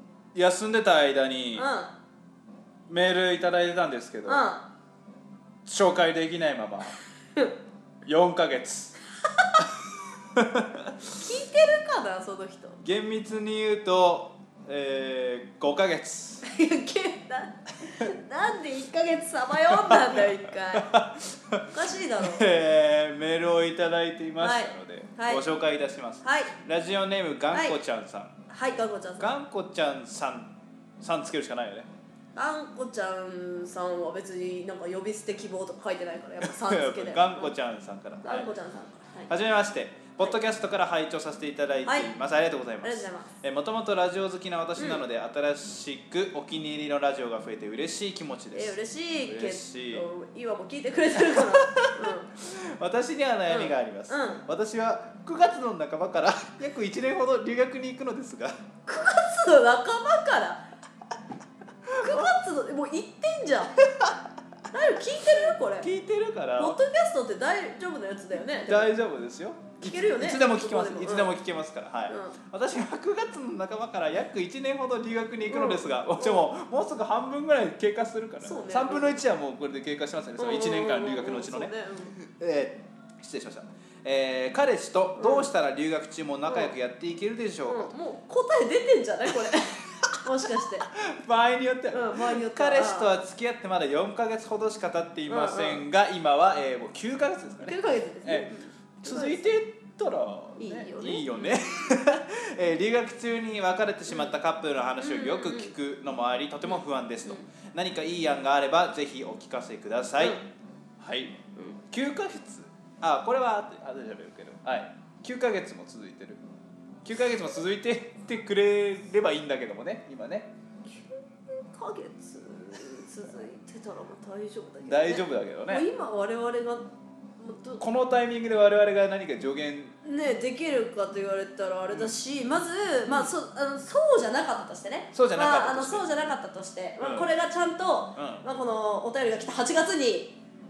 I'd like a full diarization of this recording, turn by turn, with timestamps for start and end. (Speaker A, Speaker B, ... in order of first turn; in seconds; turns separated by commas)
Speaker A: 0.3-1.7, Speaker B: 1.5-1.9, Speaker A: 2.9-4.5, Speaker B: 4.2-4.6, Speaker A: 5.6-7.0, Speaker A: 8.0-8.9, Speaker A: 10.3-11.2, Speaker B: 11.1-12.8, Speaker A: 12.8-16.4, Speaker B: 16.4-20.9, Speaker A: 19.7-28.4, Speaker B: 21.7-22.4, Speaker B: 24.4-25.4, Speaker B: 26.2-26.5, Speaker B: 27.5-27.8, Speaker B: 28.5-29.3, Speaker A: 29.2-31.9, Speaker B: 32.3-37.5, Speaker A: 36.4-38.5, Speaker B: 38.2-39.3, Speaker A: 39.3-50.0, Speaker B: 41.8-42.1, Speaker B: 42.8-43.3, Speaker B: 44.8-45.0, Speaker B: 48.5-52.3, Speaker A: 51.1-58.5, Speaker B: 53.5-54.4, Speaker B: 58.9-60.6, Speaker A: 61.9-62.3, Speaker B: 62.0-63.7, Speaker B: 64.7-65.9, Speaker A: 65.8-66.8, Speaker B: 66.6-68.9, Speaker A: 68.7-87.9, Speaker B: 69.8-71.3, Speaker B: 72.1-72.4, Speaker B: 75.5-76.4, Speaker B: 78.4-79.2, Speaker B: 80.4-82.2, Speaker B: 85.2-85.5, Speaker B: 86.5-86.7, Speaker B: 87.7-90.9, Speaker A: 90.0-110.4, Speaker B: 91.9-93.1, Speaker B: 95.3-95.8, Speaker B: 97.6-99.5, Speaker B: 100.6-101.6, Speaker B: 105.0-105.7, Speaker B: 106.6-107.4, Speaker A: 111.0-111.4, Speaker A: 111.9-116.4, Speaker A: 117.0-120.5, Speaker B: 120.9-126.8, Speaker A: 124.8-125.9, Speaker B: 127.4-127.8, Speaker A: 127.8-129.9, Speaker B: 130.0-140.3, Speaker A: 133.1-133.3, Speaker A: 135.1-136.1, Speaker A: 137.0-137.3, Speaker A: 138.2-138.4